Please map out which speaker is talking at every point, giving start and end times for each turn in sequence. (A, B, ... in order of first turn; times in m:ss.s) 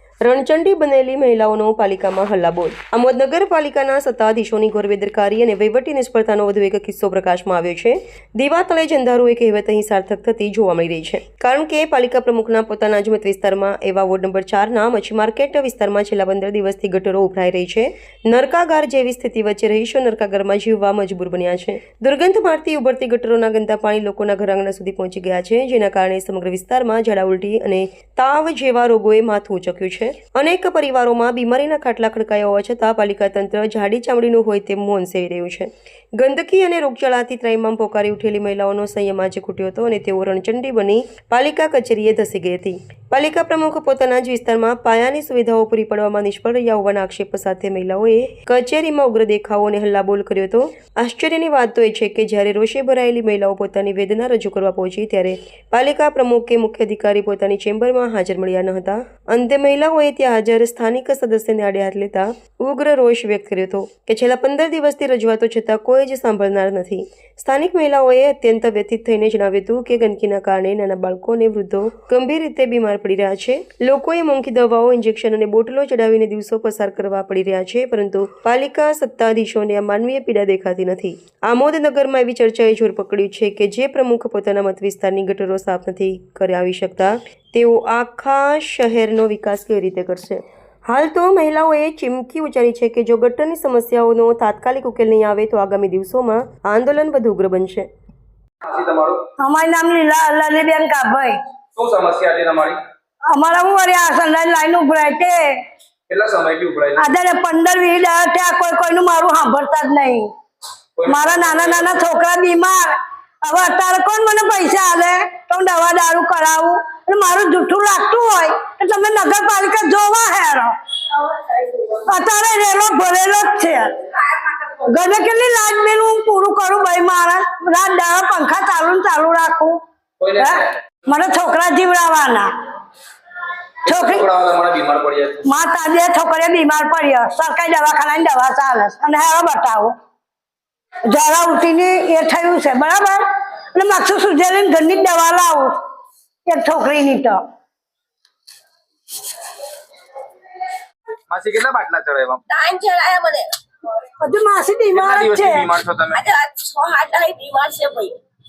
0:00.2-1:37.9 A
1:38.6-1:39.2 B
1:39.4-1:41.4 C
1:41.7-1:42.8 B
1:43.3-1:45.6 C
1:46.1-1:47.0 B
1:47.0-1:50.3 C
1:51.0-1:52.0 B
1:51.0-2:00.7 C
2:01.8-2:04.0 C
2:04.7-2:09.8 C
2:10.2-2:10.6 B
2:10.4-2:12.5 C
2:13.8-2:14.2 C
2:13.8-2:15.4 B
2:15.4-2:19.9 C
2:21.0-2:25.8 C
2:26.4-2:27.4 C
2:31.3-2:32.4 B
2:32.5-2:33.5 D
2:34.2-2:35.6 C
2:34.9-2:36.2 B
2:36.1-2:38.2 D